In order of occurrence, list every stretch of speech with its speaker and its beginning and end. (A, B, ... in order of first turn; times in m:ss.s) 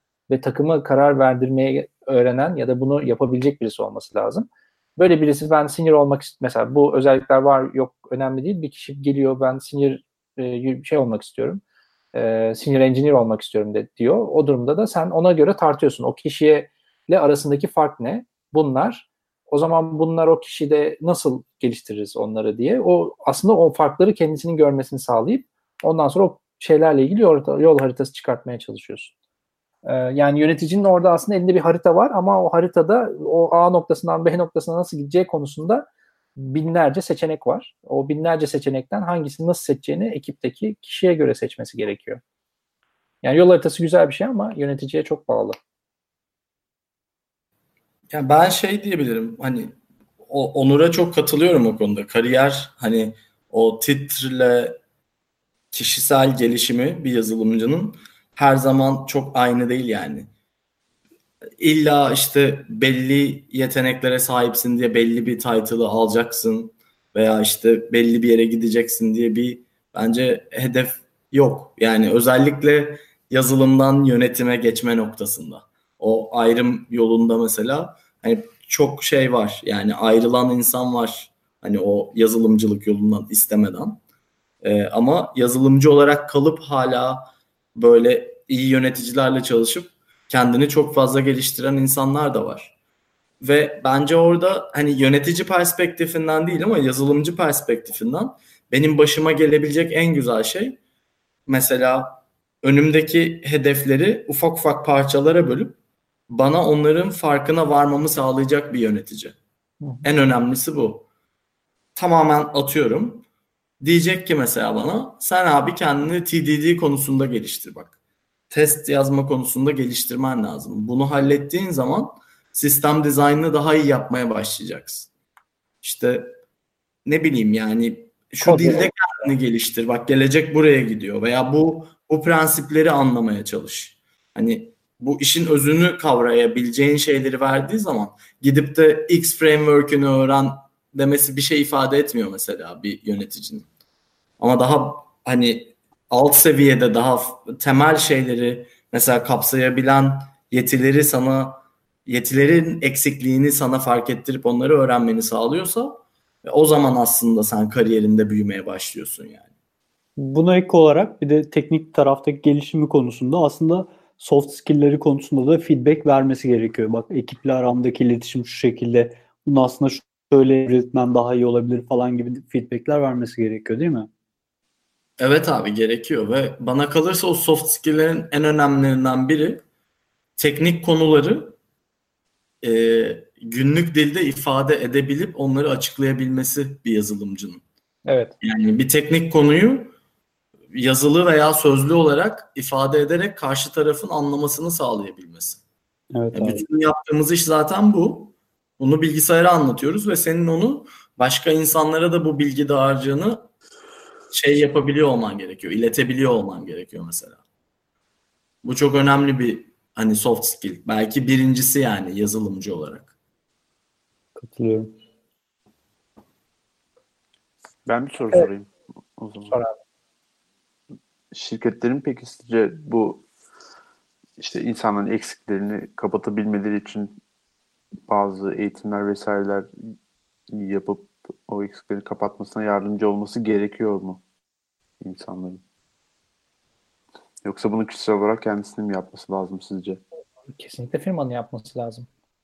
0:00.3-0:11.6 A
0:12.1-0:29.1 A
0:29.8-0:42.2 A
0:43.2-0:45.6 A
0:48.1-0:54.8 B
0:55.7-1:00.3 B
1:01.6-1:24.0 B
1:24.6-1:32.7 B
1:33.4-1:40.8 B
1:41.5-1:45.8 B
1:46.3-1:49.4 B
1:50.0-1:51.1 B
1:52.0-1:53.2 B
1:53.8-1:57.9 B
1:58.5-2:05.1 B
2:05.8-2:06.4 B
2:07.0-2:23.6 B
2:08.4-2:08.9 A
2:24.4-2:39.4 B
2:40.2-2:54.1 C
2:55.2-2:59.6 B
3:00.4-3:01.6 B
3:02.6-3:07.6 B
3:08.0-3:08.3 A
3:08.4-3:10.0 B
3:10.7-3:15.6 B
3:16.1-3:16.6 C
3:16.3-3:23.5 B
3:24.3-3:27.4 B
3:28.6-3:33.1 B
3:34.4-3:35.0 C
3:37.8-3:39.6 D
3:39.5-3:39.8 A
3:41.3-3:43.2 D
3:44.4-3:47.2 D
3:48.1-3:49.7 D
3:50.5-3:54.2 D
3:55.0-3:55.6 D
3:57.4-4:00.0 D
4:00.5-4:02.1 A